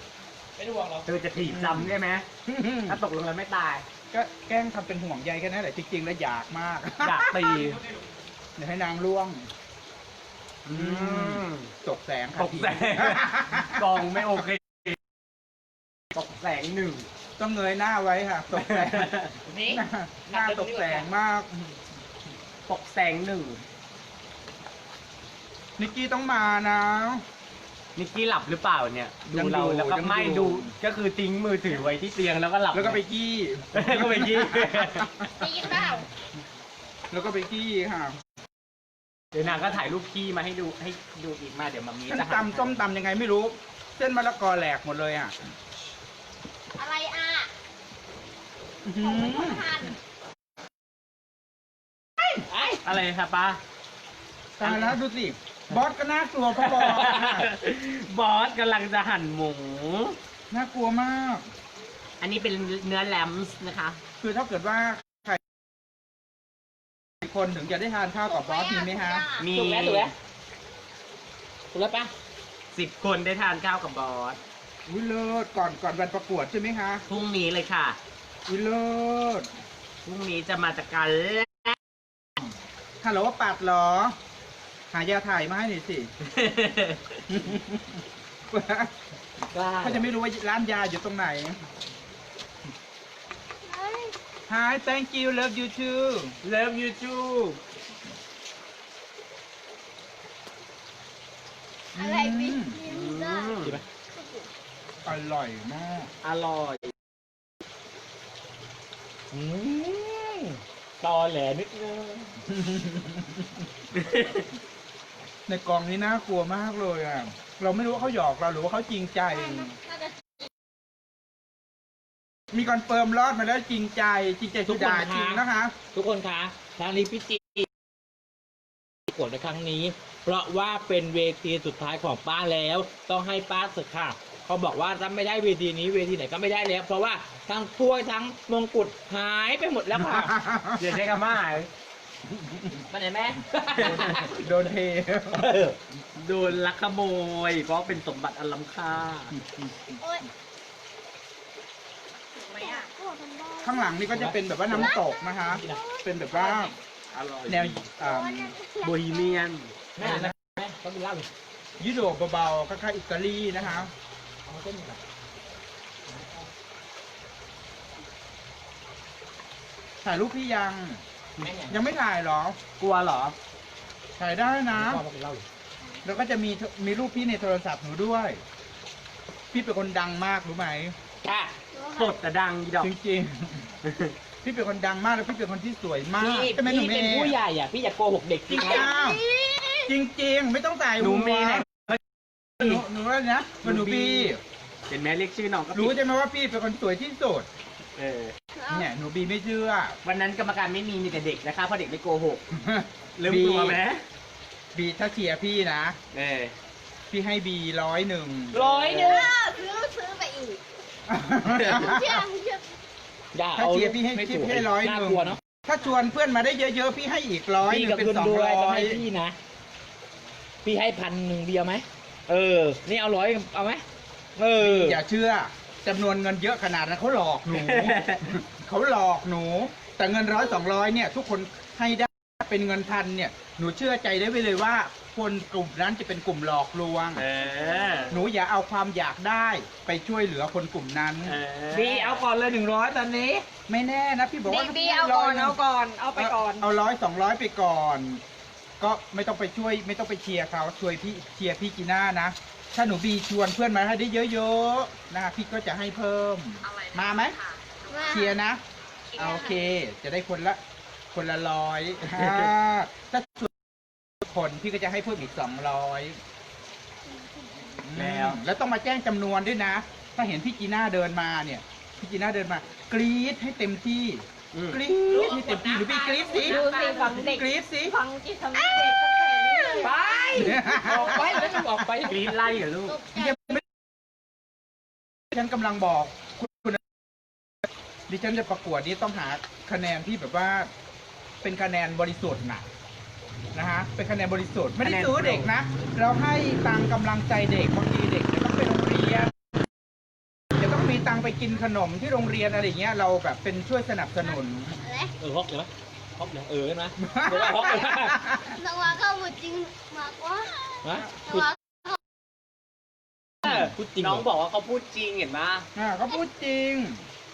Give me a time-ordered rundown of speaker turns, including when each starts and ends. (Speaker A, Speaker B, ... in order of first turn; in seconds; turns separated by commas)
Speaker A: 0.6-1.1, Speaker B: 1.1-2.2, Speaker C: 1.4-1.9, Speaker C: 2.5-3.0, Speaker B: 2.9-3.8, Speaker C: 4.1-7.5, Speaker B: 7.0-7.8, Speaker C: 8.6-9.5, Speaker B: 10.7-11.7, Speaker C: 10.7-14.2, Speaker B: 12.4-15.0, Speaker B: 16.1-17.1, Speaker C: 17.4-19.1, Speaker B: 18.6-19.3, Speaker A: 19.5-21.1, Speaker C: 19.7-21.8, Speaker B: 22.7-23.6, Speaker C: 25.8-27.2, Speaker B: 27.9-33.0, Speaker C: 29.3-30.7, Speaker C: 32.7-35.3, Speaker B: 33.7-35.0, Speaker D: 35.4-36.1, Speaker C: 37.1-38.2, Speaker B: 39.3-42.7, Speaker C: 42.1-45.3, Speaker D: 46.8-47.5, Speaker C: 48.8-49.8, Speaker D: 49.0-50.0, Speaker A: 52.5-52.8, Speaker B: 52.8-53.6, Speaker C: 54.6-57.5, Speaker B: 54.6-55.0, Speaker B: 56.6-60.1, Speaker C: 60.5-61.5, Speaker B: 62.2-64.0, Speaker C: 64.2-65.4, Speaker C: 67.2-69.2, Speaker D: 68.2-69.5, Speaker B: 69.4-70.1, Speaker A: 69.5-70.1, Speaker A: 71.7-72.1, Speaker B: 72.7-74.4, Speaker C: 74.8-77.0, Speaker B: 77.1-78.0, Speaker C: 78.5-79.5, Speaker B: 80.0-81.8, Speaker C: 83.0-84.2, Speaker C: 84.9-86.1, Speaker B: 86.2-87.2, Speaker C: 87.3-88.9, Speaker A: 89.5-90.0, Speaker C: 89.8-91.6, Speaker E: 93.7-94.1, Speaker C: 94.5-96.3, Speaker B: 96.4-97.6, Speaker C: 101.9-102.8, Speaker E: 102.0-103.6, Speaker B: 102.9-103.8, Speaker D: 104.2-104.5, Speaker C: 105.0-106.1, Speaker B: 106.2-106.9, Speaker A: 109.3-112.3, Speaker C: 112.5-113.6, Speaker B: 113.9-114.5, Speaker C: 115.5-119.7, Speaker D: 119.3-120.5, Speaker C: 122.5-125.8, Speaker A: 124.7-125.4, Speaker A: 125.9-127.7, Speaker A: 129.1-140.3, Speaker C: 140.0-141.0, Speaker B: 140.8-141.7, Speaker C: 142.3-142.7, Speaker A: 142.9-144.3, Speaker B: 143.8-144.2, Speaker C: 143.8-145.5, Speaker A: 145.3-145.8, Speaker B: 146.2-149.3, Speaker C: 149.3-150.0, Speaker D: 152.3-152.9, Speaker E: 152.6-154.2, Speaker C: 153.6-156.7, Speaker A: 154.1-154.9, Speaker E: 154.7-156.5, Speaker A: 155.5-155.8, Speaker B: 157.1-157.9, Speaker C: 157.5-158.5, Speaker E: 158.0-159.4, Speaker B: 158.8-159.7, Speaker A: 160.0-161.3, Speaker C: 160.0-160.3, Speaker C: 161.8-163.9, Speaker A: 164.4-165.0, Speaker A: 166.1-166.5, Speaker C: 170.0-171.0, Speaker A: 171.4-171.8, Speaker C: 171.7-172.6, Speaker B: 172.8-173.3, Speaker C: 174.2-175.0, Speaker A: 174.7-175.4, Speaker C: 176.0-178.4, Speaker C: 179.5-180.9, Speaker A: 181.2-181.5, Speaker E: 181.7-182.1, Speaker B: 182.0-182.9, Speaker C: 182.8-183.7, Speaker B: 183.8-184.1, Speaker C: 184.4-187.3, Speaker A: 186.2-188.9, Speaker C: 188.5-189.2, Speaker E: 188.6-189.2, Speaker C: 189.9-191.7, Speaker B: 191.0-191.8, Speaker C: 192.6-194.4, Speaker B: 193.6-194.3, Speaker B: 194.9-196.0, Speaker C: 195.7-197.5, Speaker B: 198.0-198.3, Speaker E: 198.6-198.8, Speaker C: 198.7-200.0, Speaker B: 200.0-202.4, Speaker C: 202.5-203.8, Speaker B: 203.2-204.0, Speaker C: 204.7-206.0, Speaker B: 206.1-206.5, Speaker C: 207.1-208.6, Speaker A: 208.5-209.3, Speaker B: 208.5-209.2, Speaker D: 209.0-210.6, Speaker E: 209.0-209.3, Speaker C: 211.1-212.2, Speaker E: 211.6-212.6, Speaker D: 211.9-212.3, Speaker A: 213.3-215.4, Speaker C: 213.6-219.0, Speaker A: 217.6-219.3, Speaker A: 220.6-223.8, Speaker A: 224.3-225.0, Speaker C: 224.6-237.2, Speaker B: 227.5-228.3, Speaker B: 237.2-238.1, Speaker E: 237.8-238.2, Speaker C: 238.1-241.4, Speaker B: 241.2-242.2, Speaker A: 241.7-243.4, Speaker C: 243.7-245.6, Speaker D: 244.4-246.7, Speaker C: 246.1-248.2, Speaker C: 248.8-257.4, Speaker D: 256.6-258.3, Speaker E: 257.9-258.4, Speaker C: 258.1-258.6, Speaker D: 259.1-259.7, Speaker C: 259.1-260.6, Speaker C: 261.1-266.2, Speaker E: 267.1-267.8, Speaker C: 267.8-277.9, Speaker B: 267.9-268.4, Speaker B: 274.5-274.8, Speaker A: 275.1-277.4, Speaker D: 276.3-281.6, Speaker E: 276.7-277.2, Speaker E: 278.5-279.9, Speaker A: 279.8-282.4, Speaker C: 280.3-281.8, Speaker B: 282.0-283.0, Speaker D: 282.9-283.4, Speaker C: 283.1-283.6, Speaker C: 285.3-286.8, Speaker C: 288.1-290.7, Speaker C: 291.4-292.6, Speaker C: 293.5-299.3, Speaker B: 294.8-295.5, Speaker C: 300.6-304.8, Speaker E: 304.8-305.1, Speaker A: 305.2-308.1, Speaker C: 307.0-308.5, Speaker E: 307.5-311.9, Speaker A: 310.8-311.1, Speaker A: 313.4-314.2, Speaker B: 313.4-315.7, Speaker C: 315.8-317.0